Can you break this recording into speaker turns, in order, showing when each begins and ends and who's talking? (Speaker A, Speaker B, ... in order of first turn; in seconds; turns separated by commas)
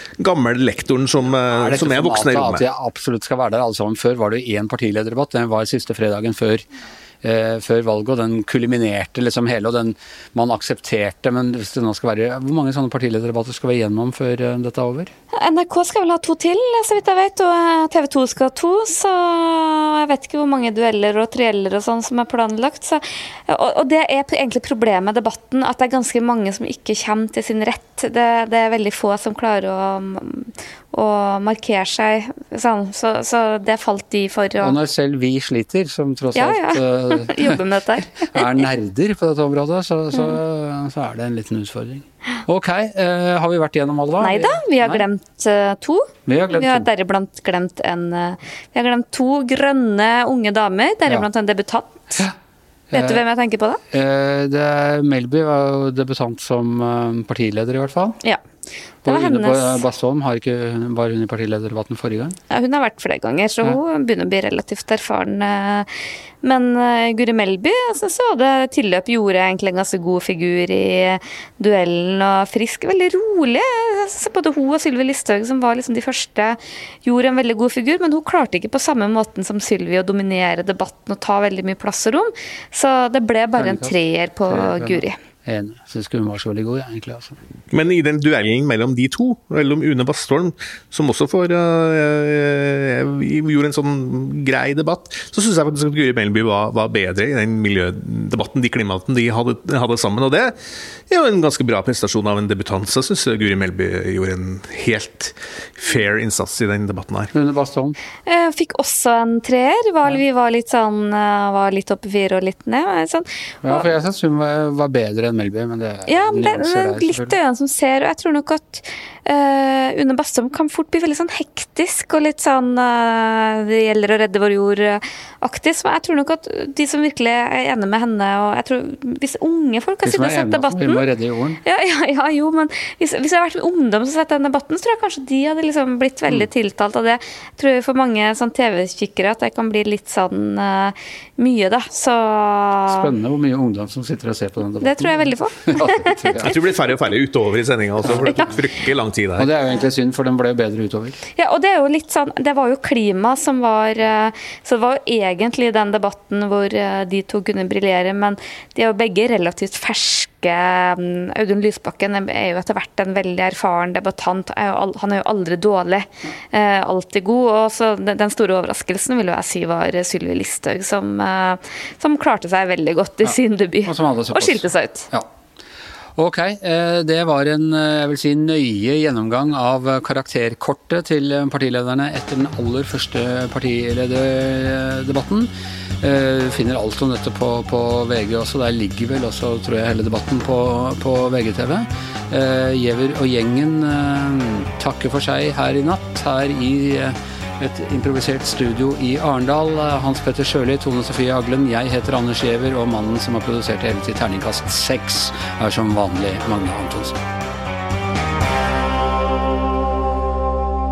Speaker A: 0.2-2.6, Speaker B: 1.5-6.7, Speaker B: 7.2-15.1, Speaker C: 15.3-34.8, Speaker B: 34.6-37.6, Speaker C: 36.3-38.6, Speaker B: 38.1-45.0, Speaker C: 44.2-52.2, Speaker B: 46.3-46.9, Speaker B: 52.9-53.2, Speaker C: 52.9-53.8, Speaker B: 53.9-58.2, Speaker B: 59.0-62.4, Speaker C: 59.0-59.8, Speaker C: 62.5-65.9, Speaker C: 66.4-85.2, Speaker B: 83.5-84.0, Speaker B: 84.5-87.4, Speaker A: 87.7-100.5, Speaker A: 101.1-107.3, Speaker B: 107.3-108.0, Speaker C: 108.3-113.9, Speaker B: 113.6-117.3, Speaker C: 116.1-131.0, Speaker B: 130.0-131.6, Speaker C: 131.6-143.1, Speaker B: 142.9-146.5, Speaker C: 144.8-146.5, Speaker A: 146.4-149.5, Speaker B: 148.1-148.4, Speaker C: 148.1-148.6, Speaker B: 149.4-151.2, Speaker C: 151.3-175.1, Speaker B: 173.8-175.3, Speaker B: 176.2-207.2